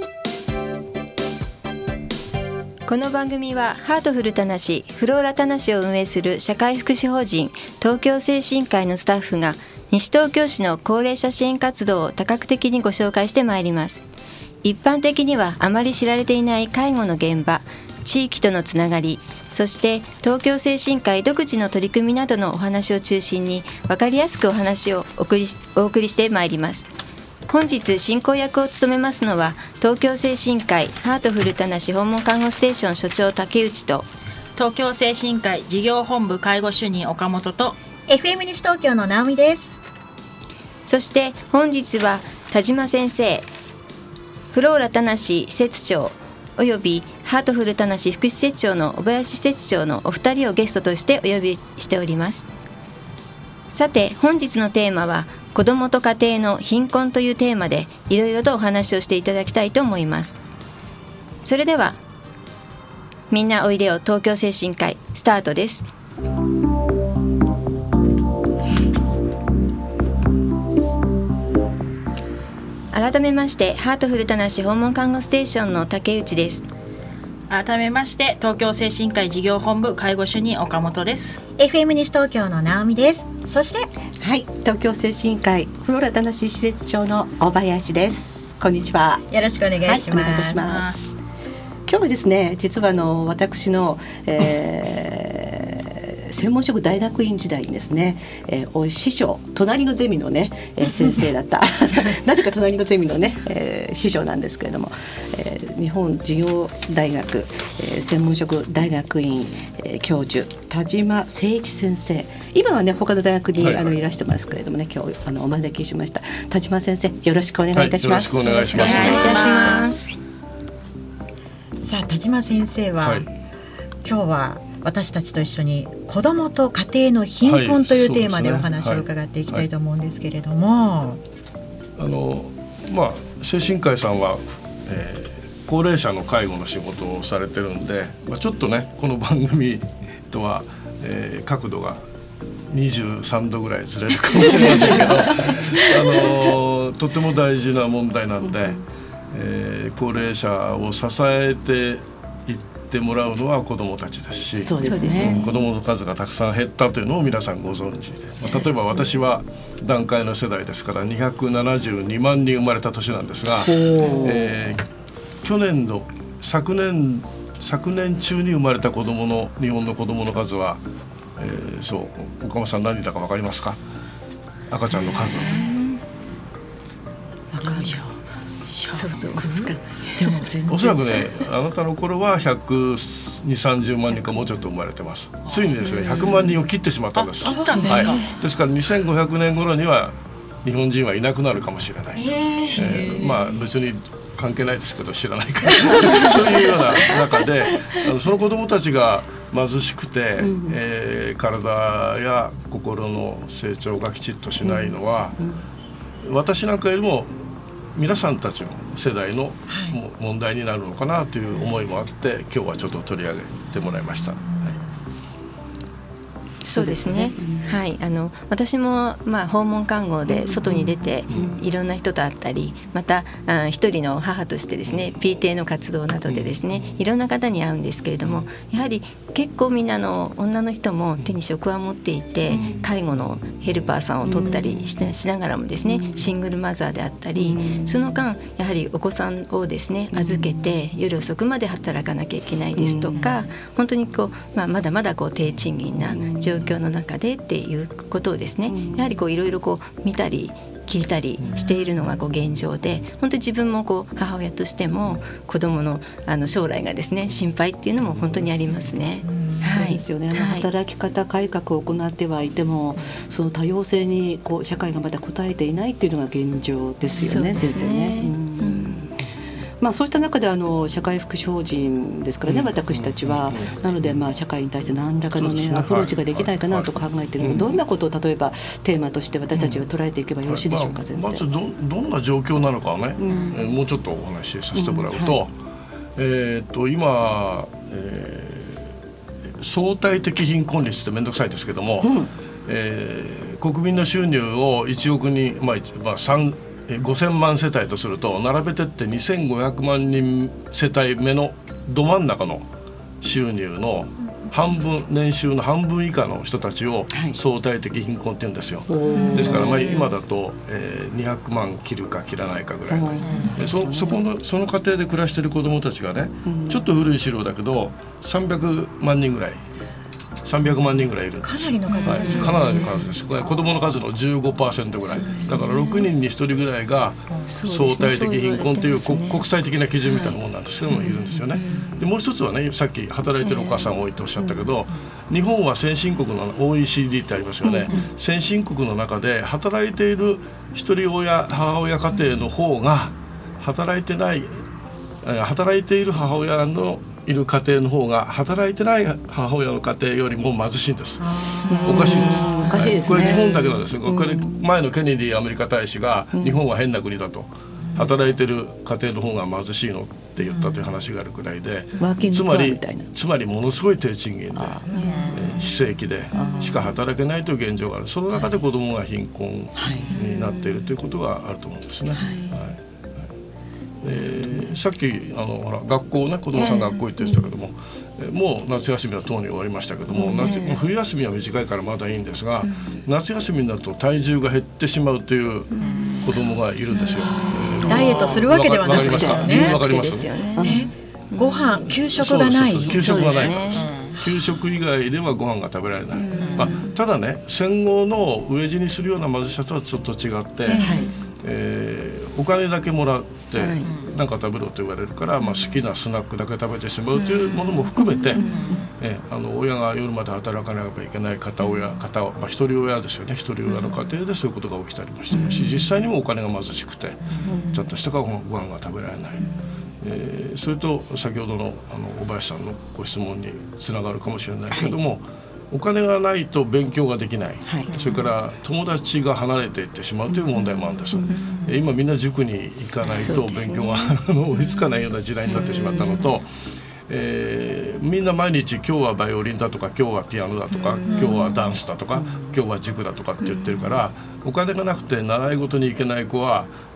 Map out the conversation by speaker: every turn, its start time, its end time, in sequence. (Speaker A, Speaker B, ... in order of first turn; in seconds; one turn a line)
Speaker A: 2.9-14.1
Speaker A: 14.6-26.9
Speaker A: 27.5-34.1
Speaker B: 34.6-37.8
Speaker C: 38.1-39.8
Speaker A: 40.9-43.5
Speaker A: 44.5-52.5
Speaker A: 53.7-60.4
Speaker A: 61.4-62.0
Speaker A: 63.3-65.9
Speaker A: 72.9-76.7
Speaker B: 77.5-81.4
Speaker C: 81.6-83.9
Speaker D: 84.2-89.2
Speaker C: 89.3-90.6
Speaker D: 89.8-91.1
Speaker B: 90.6-91.0
Speaker D: 91.9-119.8
Speaker E: 113.6-113.9
Speaker E: 117.7-119.4
Speaker B: 118.7-120.1
Speaker A: 118.7-120.0
Speaker C: 121.8-123.3
Speaker E: 123.0-123.3
Speaker C: 124.0-131.2
Speaker E: 127.4-129.7
Speaker E: 132.0-142.0
Speaker E: 142.7-164.8
Speaker D: 144.5-145.6
Speaker D: 148.4-148.8
Speaker D: 154.6-155.5
Speaker A: 154.8-155.5
Speaker D: 163.6-164.6
Speaker E: 165.4-170.8
Speaker E: 171.4-173.8
Speaker E: 174.7-175.7
Speaker A: 175.4-176.0
Speaker D: 177.5-178.1
Speaker B: 177.6-178.1
Speaker B: 178.7-181.3
Speaker A: 178.9-180.4
Speaker E: 180.7-205.4
Speaker B: 185.5-186.1
Speaker B: 187.2-188.3
Speaker C: 187.5-188.2
Speaker A: 187.9-188.3
Speaker C: 192.2-193.2
Speaker D: 200.4-200.8
Speaker D: 204.6-205.6
Speaker E: 206.2-207.4
Speaker E: 207.9-214.8
Speaker A: 216.6-260.7
Speaker D: 216.7-217.8
Speaker D: 220.3-220.7
Speaker E: 221.3-221.6
Speaker E: 224.9-225.1
Speaker E: 226.3-226.8
Speaker D: 232.5-232.8
Speaker D: 234.2-234.8
Speaker D: 235.9-236.2
Speaker D: 237.4-238.1
Speaker D: 240.1-240.7
Speaker D: 242.8-243.2
Speaker D: 246.1-246.5
Speaker D: 248.7-249.1
Speaker C: 259.3-259.6
Speaker D: 259.5-269.2
Speaker A: 267.2-269.0
Speaker D: 269.8-281.4
Speaker E: 272.5-274.2
Speaker E: 275.4-277.7
Speaker E: 279.6-279.8
Speaker E: 280.5-285.5
Speaker D: 283.2-283.6
Speaker D: 284.7-285.4
Speaker E: 286.2-288.9
Speaker E: 289.6-302.7
Speaker D: 292.0-292.3
Speaker E: 303.2-319.6
Speaker D: 307.1-307.4
Speaker D: 308.9-309.8
Speaker A: 309.1-309.5
Speaker D: 312.9-314.2
Speaker B: 313.2-313.5
Speaker D: 316.4-316.9
Speaker E: 320.4-344.6
Speaker C: 321.4-323.7
Speaker A: 321.9-323.1
Speaker A: 325.3-326.1
Speaker A: 327.5-329.4
Speaker A: 330.0-330.4
Speaker A: 331.0-332.0
Speaker A: 333.4-333.9
Speaker D: 337.6-338.0
Speaker E: 345.2-373.3
Speaker C: 351.2-353.3
Speaker D: 351.7-354.6
Speaker A: 351.9-352.7
Speaker D: 356.3-356.6
Speaker D: 362.0-363.1
Speaker D: 364.6-364.9
Speaker A: 364.9-365.5
Speaker B: 365.0-365.4
Speaker D: 366.3-366.9
Speaker D: 369.8-370.2
Speaker A: 370.1-370.7
Speaker D: 372.1-372.5
Speaker A: 372.2-372.5
Speaker E: 374.0-390.5
Speaker A: 376.7-377.0
Speaker D: 380.1-380.6
Speaker A: 380.4-380.8
Speaker A: 385.8-386.3
Speaker B: 385.8-386.3
Speaker A: 387.1-388.1
Speaker D: 387.4-388.2
Speaker C: 387.9-389.8
Speaker D: 388.9-389.4
Speaker A: 389.1-390.8
Speaker D: 390.5-390.9
Speaker C: 390.6-393.5
Speaker A: 391.3-391.7
Speaker E: 391.8-436.5
Speaker A: 392.9-393.9
Speaker B: 393.7-394.2
Speaker A: 396.3-397.0
Speaker B: 396.4-396.8
Speaker D: 396.6-396.9
Speaker C: 400.7-401.0
Speaker D: 400.7-401.1
Speaker D: 403.6-403.9
Speaker B: 403.8-404.1
Speaker A: 407.9-408.5
Speaker D: 408.3-408.8
Speaker B: 408.4-408.9
Speaker D: 415.3-415.8
Speaker B: 417.3-417.5
Speaker D: 417.4-417.9
Speaker D: 424.7-425.0
Speaker B: 427.9-428.3
Speaker D: 430.3-430.6
Speaker D: 431.1-431.4
Speaker A: 431.3-431.6
Speaker A: 433.2-434.1
Speaker D: 435.5-436.2
Speaker A: 435.7-436.0
Speaker E: 437.1-446.7
Speaker A: 440.7-441.6
Speaker A: 443.4-443.9